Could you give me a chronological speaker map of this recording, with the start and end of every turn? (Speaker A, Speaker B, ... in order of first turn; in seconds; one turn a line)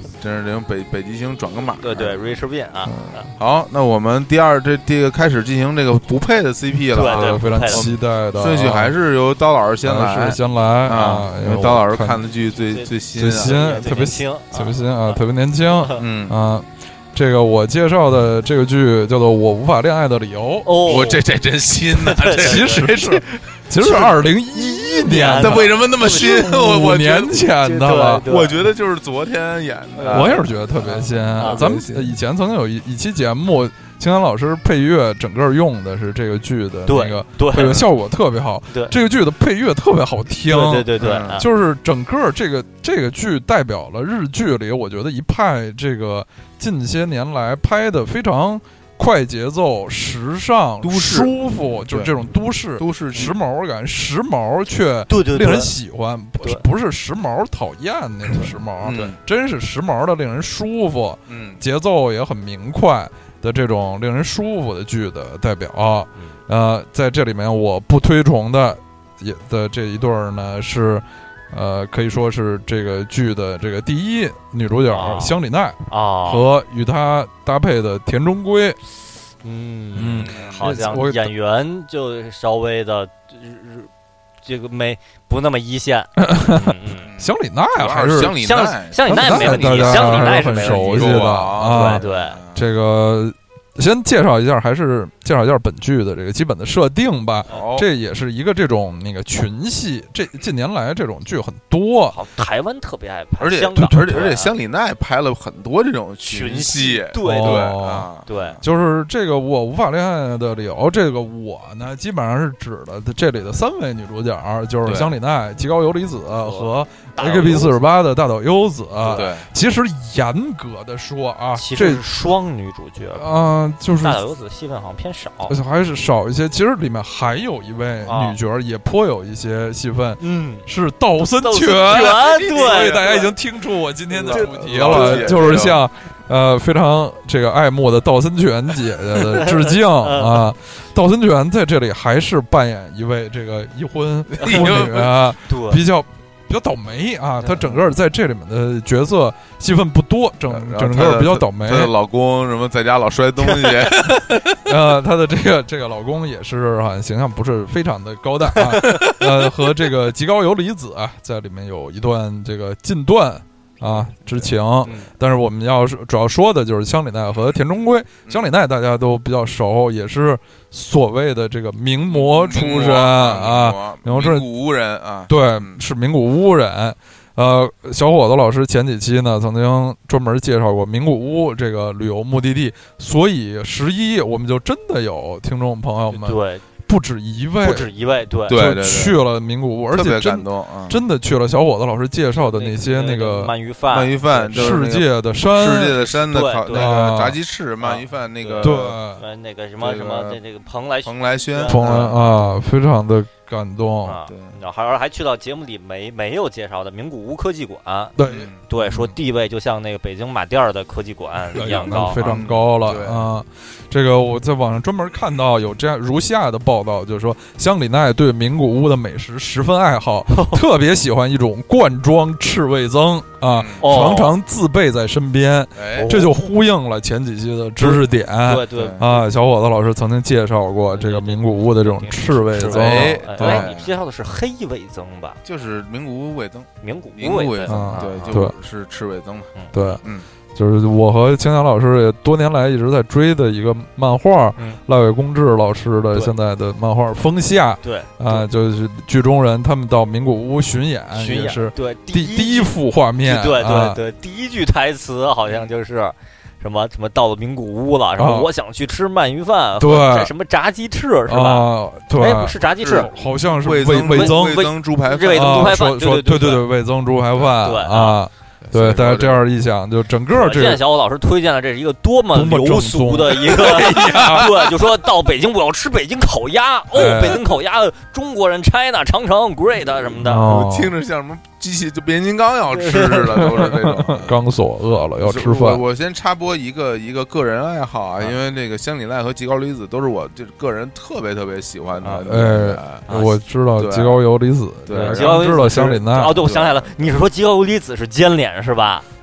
Speaker A: 0.2-2.3
Speaker B: 1.8-3.2
Speaker C: 2.8-3.3
Speaker A: 3.4-13.6
Speaker B: 6.9-7.8
Speaker C: 7.0-8.9
Speaker C: 9.8-12.2
Speaker B: 12.7-16.0
Speaker C: 13.1-20.8
Speaker A: 16.0-16.4
Speaker B: 20.6-21.2
Speaker A: 20.8-24.3
Speaker B: 21.9-23.0
Speaker C: 22.4-28.2
Speaker B: 23.8-26.5
Speaker A: 25.3-27.5
Speaker B: 27.6-28.6
Speaker A: 28.2-32.1
Speaker B: 29.9-30.5
Speaker C: 30.1-78.8
Speaker B: 31.4-31.6
Speaker B: 36.9-37.8
Speaker B: 40.5-41.5
Speaker A: 41.0-41.4
Speaker A: 50.8-52.1
Speaker A: 52.8-53.3
Speaker B: 55.1-55.7
Speaker B: 56.4-56.6
Speaker A: 58.8-59.2
Speaker A: 61.3-61.6
Speaker B: 74.9-75.3
Speaker B: 75.9-76.5
Speaker B: 79.4-83.9
Speaker C: 79.9-81.3
Speaker A: 80.2-80.8
Speaker B: 84.4-87.1
Speaker C: 86.2-88.3
Speaker A: 87.0-92.7
Speaker B: 88.4-92.4
Speaker C: 89.0-92.0
Speaker C: 92.5-102.2
Speaker A: 97.5-97.9
Speaker B: 102.1-104.5
Speaker A: 103.4-108.6
Speaker C: 103.8-104.2
Speaker B: 106.2-108.6
Speaker C: 107.2-108.1
Speaker C: 108.6-122.0
Speaker A: 114.8-115.1
Speaker B: 116.3-117.8
Speaker B: 119.0-119.3
Speaker A: 119.1-119.5
Speaker B: 121.5-123.3
Speaker C: 123.2-124.2
Speaker B: 124.0-125.6
Speaker C: 125.5-151.9
Speaker B: 128.0-128.4
Speaker B: 130.2-130.7
Speaker B: 131.3-133.3
Speaker A: 131.9-133.3
Speaker A: 134.1-135.8
Speaker B: 134.2-135.7
Speaker B: 139.2-140.5
Speaker A: 144.4-145.2
Speaker B: 144.4-144.8
Speaker B: 145.4-145.8
Speaker B: 147.4-147.7
Speaker A: 150.5-154.6
Speaker B: 153.4-153.9
Speaker C: 154.6-174.4
Speaker A: 158.7-159.3
Speaker A: 164.3-165.1
Speaker A: 172.1-175.8
Speaker C: 175.3-187.9
Speaker B: 186.1-186.6
Speaker B: 187.6-188.6
Speaker A: 188.5-189.2
Speaker C: 188.5-193.5
Speaker A: 189.9-191.0
Speaker B: 192.4-194.8
Speaker A: 193.9-199.0
Speaker C: 194.5-196.0
Speaker B: 196.3-196.9
Speaker C: 196.7-197.4
Speaker B: 197.8-202.1
Speaker C: 198.6-199.2
Speaker A: 199.8-200.4
Speaker A: 201.0-202.4
Speaker C: 201.7-204.2
Speaker B: 204.0-208.1
Speaker A: 204.3-204.6
Speaker C: 208.2-209.2
Speaker A: 208.2-208.6
Speaker B: 208.7-212.2
Speaker C: 211.5-233.7
Speaker A: 212.2-213.3
Speaker B: 220.3-220.6
Speaker A: 223.5-224.2
Speaker B: 223.8-224.3
Speaker A: 225.7-226.2
Speaker B: 225.9-226.3
Speaker B: 227.8-229.2
Speaker A: 228.8-229.1
Speaker B: 230.9-235.4
Speaker A: 232.6-233.9
Speaker A: 235.4-240.2
Speaker B: 236.8-238.4
Speaker C: 237.7-238.5
Speaker B: 239.5-240.0
Speaker C: 239.7-240.0
Speaker C: 240.5-254.0
Speaker B: 247.8-248.4
Speaker B: 251.1-263.1
Speaker C: 258.2-258.5
Speaker C: 259.8-260.3
Speaker C: 261.3-264.6
Speaker A: 262.7-265.8
Speaker B: 264.1-266.6
Speaker C: 265.3-270.8
Speaker B: 267.6-268.2
Speaker A: 268.6-269.4
Speaker B: 270.3-280.4
Speaker C: 272.3-274.6
Speaker A: 273.7-274.5
Speaker C: 276.9-277.4
Speaker A: 280.1-284.4
Speaker C: 280.2-280.9
Speaker B: 282.7-283.4
Speaker C: 283.4-285.8
Speaker A: 285.2-293.1
Speaker C: 292.2-296.4
Speaker B: 293.1-293.4
Speaker A: 293.8-294.2
Speaker A: 294.9-297.2
Speaker B: 294.9-299.1